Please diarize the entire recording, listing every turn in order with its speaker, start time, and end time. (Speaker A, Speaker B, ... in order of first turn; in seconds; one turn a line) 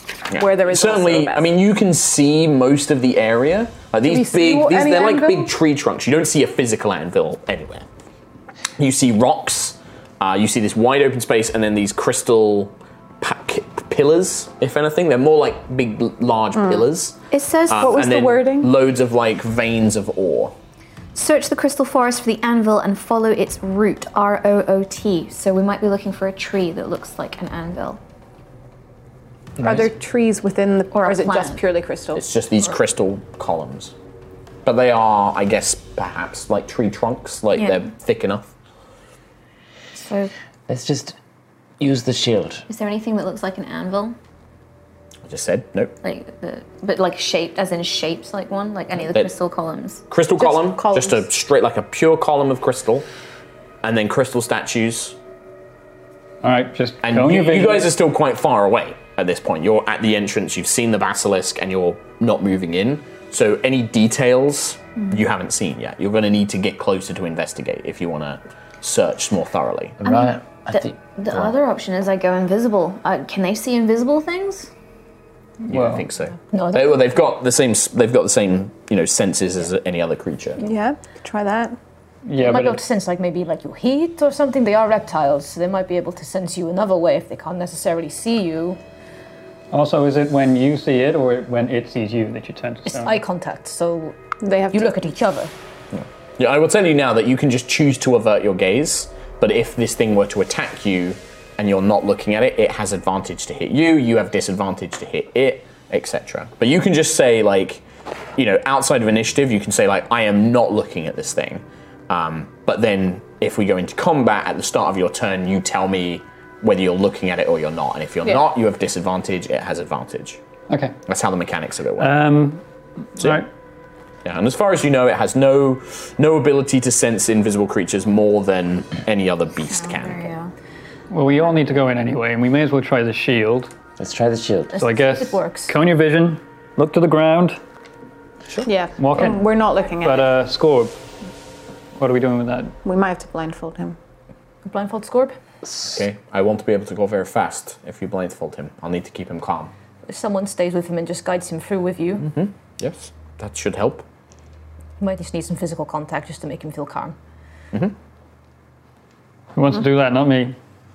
Speaker A: 0.3-7.9
Speaker B: 0.3-1.5
Speaker B: 4.1-5.5
Speaker A: 8.8-17.1
Speaker B: 16.5-16.9
Speaker C: 17.3-18.0
Speaker A: 17.7-20.5
Speaker B: 17.7-18.7
Speaker C: 21.1-28.0
Speaker B: 29.6-32.2
Speaker C: 30.9-31.6
Speaker A: 32.1-33.9
Speaker A: 34.6-38.5
Speaker C: 37.5-37.9
Speaker C: 39.9-40.3
Speaker D: 40.7-41.1
Speaker D: 41.8-42.6
Speaker C: 42.7-44.1
Speaker A: 45.2-45.9
Speaker C: 46.0-50.0
Speaker A: 50.1-53.0
Speaker B: 50.4-51.3
Speaker A: 53.8-55.1
Speaker E: 56.4-57.9
Speaker A: 57.0-70.0
Speaker D: 70.0-71.5
Speaker C: 70.0-74.7
Speaker E: 75.7-76.0
Speaker A: 75.7-80.6
Speaker F: 76.5-77.0
Speaker B: 80.6-81.8
Speaker E: 82.2-82.8
Speaker F: 82.4-88.8
Speaker E: 89.7-93.2
Speaker F: 92.9-95.5
Speaker B: 94.4-94.9
Speaker A: 95.9-107.8
Speaker A: 108.4-120.4
Speaker E: 120.7-121.0
Speaker A: 121.1-122.2
Speaker E: 122.0-122.6
Speaker E: 123.2-123.5
Speaker A: 123.2-123.5
Speaker A: 124.2-130.3
Speaker C: 129.6-130.5
Speaker E: 131.1-133.7
Speaker D: 134.0-134.8
Speaker F: 134.7-135.7
Speaker E: 134.8-137.6
Speaker B: 138.6-140.4
Speaker E: 139.0-140.9
Speaker E: 142.0-142.7
Speaker B: 142.8-144.0
Speaker F: 144.6-145.4
Speaker A: 145.8-149.7
Speaker F: 150.1-152.3
Speaker A: 152.2-154.1
Speaker F: 155.0-157.1
Speaker E: 159.6-160.6